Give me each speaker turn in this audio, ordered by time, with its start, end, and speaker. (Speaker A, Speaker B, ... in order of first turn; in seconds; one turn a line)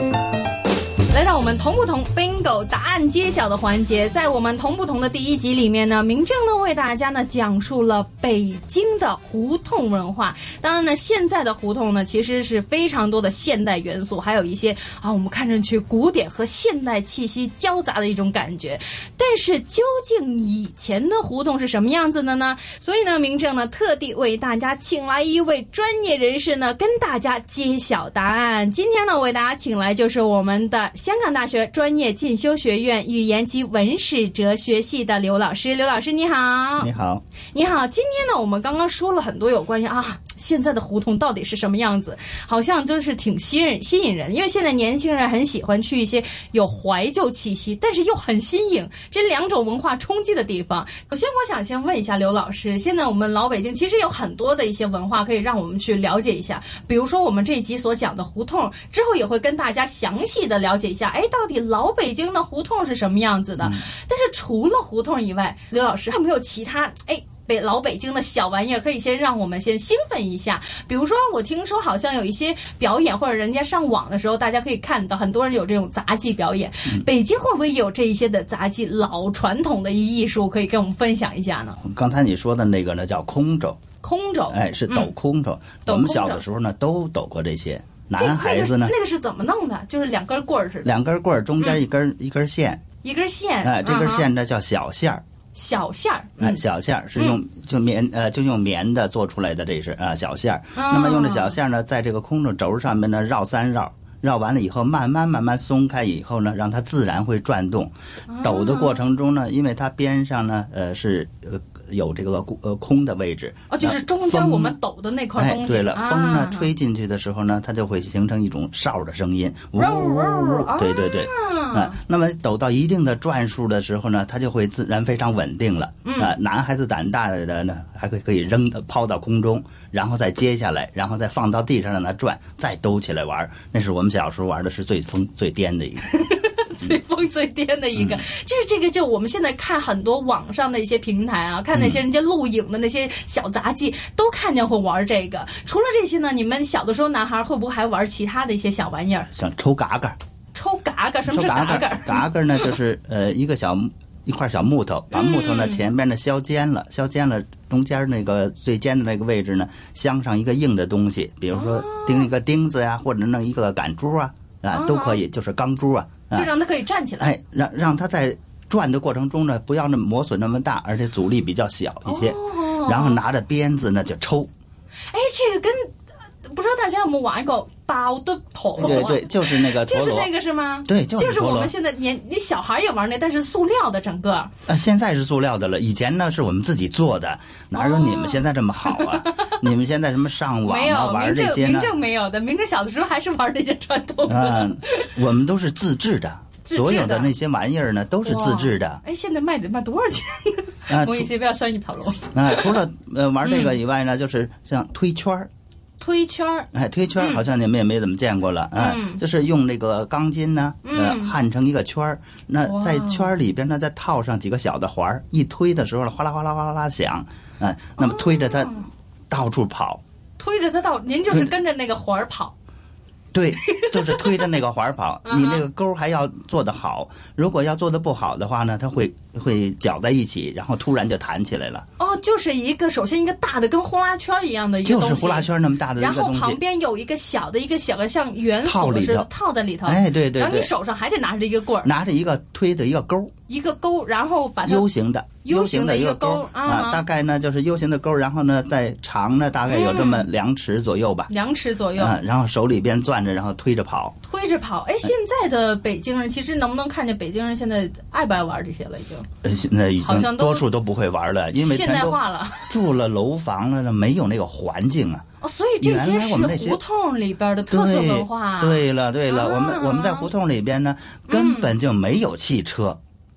Speaker A: 1.1-36.9
Speaker B: 36.8-37.2
Speaker A: 37.5-81.8
Speaker B: 63.6-63.9
Speaker B: 81.8-83.8
Speaker A: 84.0-85.1
Speaker B: 84.5-88.9
Speaker A: 85.8-86.4
Speaker A: 88.2-90.9
Speaker B: 90.8-92.8
Speaker A: 93.0-94.3
Speaker B: 93.6-95.2
Speaker A: 95.5-96.6
Speaker B: 96.4-114.8
Speaker A: 100.7-101.5
Speaker A: 108.3-109.0
Speaker A: 113.7-116.7
Speaker B: 115.3-136.1
Speaker A: 119.8-121.9
Speaker A: 126.0-126.3
Speaker A: 136.1-149.3
Speaker B: 137.9-138.2
Speaker B: 141.7-142.0
Speaker B: 149.3-150.2
Speaker A: 150.5-152.8
Speaker B: 151.2-166.5
Speaker A: 155.1-155.8
Speaker A: 161.5-162.3
Speaker A: 164.7-165.2
Speaker A: 166.3-167.3
Speaker B: 167.2-174.5
Speaker A: 172.0-173.2
Speaker A: 175.1-175.9
Speaker A: 176.4-184.5
Speaker B: 178.8-180.3
Speaker B: 180.9-181.7
Speaker B: 184.7-191.9
Speaker A: 187.7-189.6
Speaker A: 190.6-195.1
Speaker B: 194.3-199.0
Speaker A: 196.6-197.3
Speaker A: 198.2-202.8
Speaker B: 200.9-201.3
Speaker B: 202.3-205.5
Speaker A: 203.4-203.8
Speaker A: 206.0-207.4
Speaker B: 206.7-220.0
Speaker A: 208.8-209.2
Speaker A: 210.8-211.3
Speaker A: 212.6-213.3
Speaker A: 218.0-218.8
Speaker A: 220.4-222.5
Speaker B: 223.3-231.8
Speaker A: 223.6-224.5
Speaker A: 225.2-225.6
Speaker A: 232.0-241.9
Speaker B: 234.8-236.6
Speaker B: 238.6-239.3
Speaker B: 239.8-240.7
Speaker B: 241.8-243.3
Speaker A: 243.5-244.9
Speaker B: 244.6-251.3
Speaker A: 245.4-247.0
Speaker A: 249.7-250.2
Speaker A: 251.3-252.2
Speaker B: 251.9-254.2
Speaker A: 254.2-259.3
Speaker B: 259.4-265.2
Speaker A: 260.0-260.7
Speaker A: 261.6-262.8
Speaker A: 265.4-270.3
Speaker B: 265.8-266.8
Speaker B: 267.7-273.0
Speaker A: 271.3-271.7